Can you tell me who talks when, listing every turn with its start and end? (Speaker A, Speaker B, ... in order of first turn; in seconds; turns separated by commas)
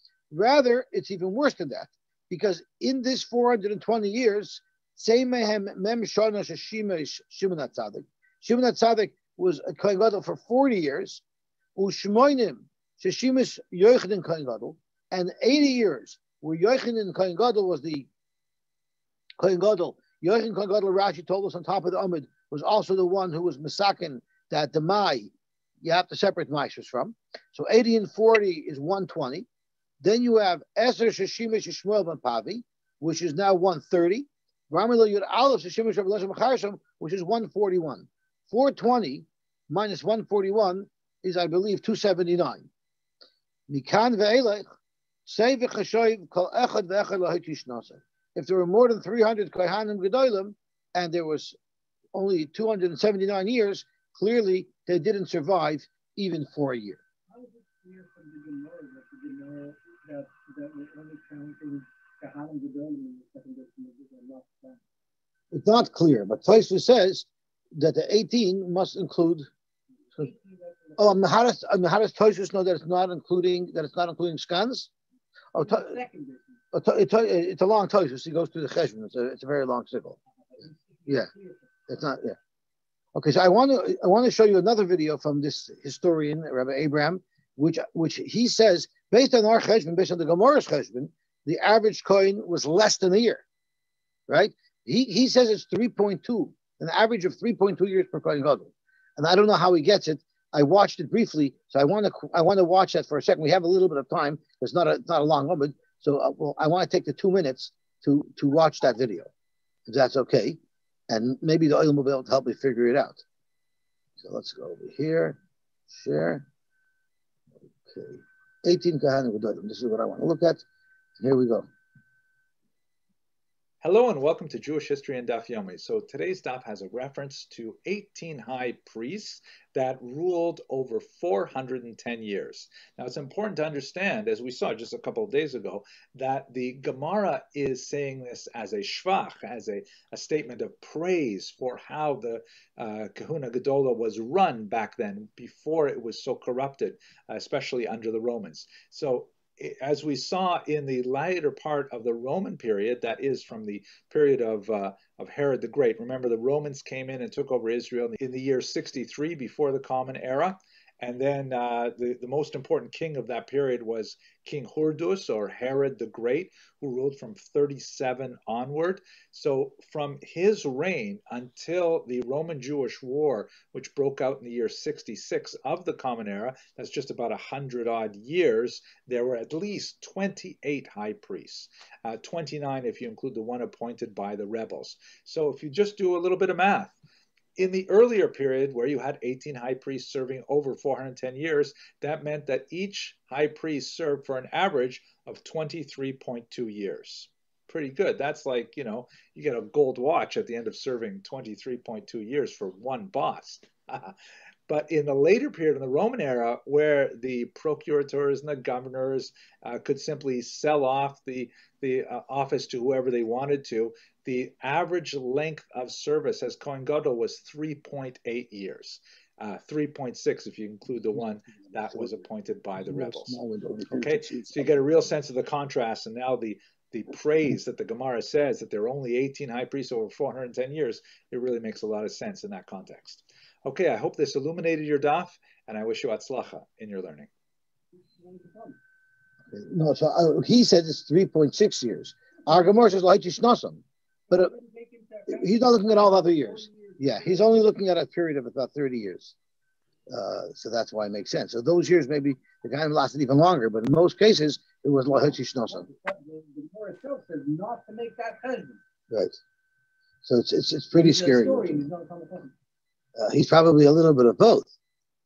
Speaker A: 0.3-11.2, Speaker A: 11.8-18.1, Speaker A: 19.4-25.3, Speaker A: 25.8-29.4, Speaker A: 30.0-42.7, Speaker A: 43.7-44.6, Speaker A: 45.2-51.5, Speaker A: 52.1-57.0, Speaker B: 57.3-64.8, Speaker A: 65.5-69.5, Speaker B: 70.1-71.2, Speaker A: 71.0-74.9, Speaker A: 75.5-75.9, Speaker B: 75.5-76.5, Speaker A: 76.7-80.2, Speaker B: 80.5-81.7, Speaker A: 81.9-82.4, Speaker A: 83.1-93.4, Speaker A: 94.3-109.3, Speaker A: 109.9-110.6, Speaker A: 111.1-113.2, Speaker A: 114.2-115.4, Speaker A: 115.9-116.4, Speaker A: 117.9-120.6, Speaker A: 121.2-121.7, Speaker C: 123.8-186.9, Speaker C: 187.6-204.1, Speaker C: 204.7-223.4, Speaker A: 221.7-222.1, Speaker A: 222.8-224.7, Speaker C: 223.9-237.3, Speaker B: 238.0-238.8, Speaker A: 239.5-244.5, Speaker B: 244.3-247.7, Speaker A: 245.3-249.3, Speaker A: 250.1-255.9, Speaker B: 255.7-258.8, Speaker A: 259.1-259.4, Speaker A: 260.2-261.9, Speaker B: 260.9-262.5, Speaker A: 263.1-264.7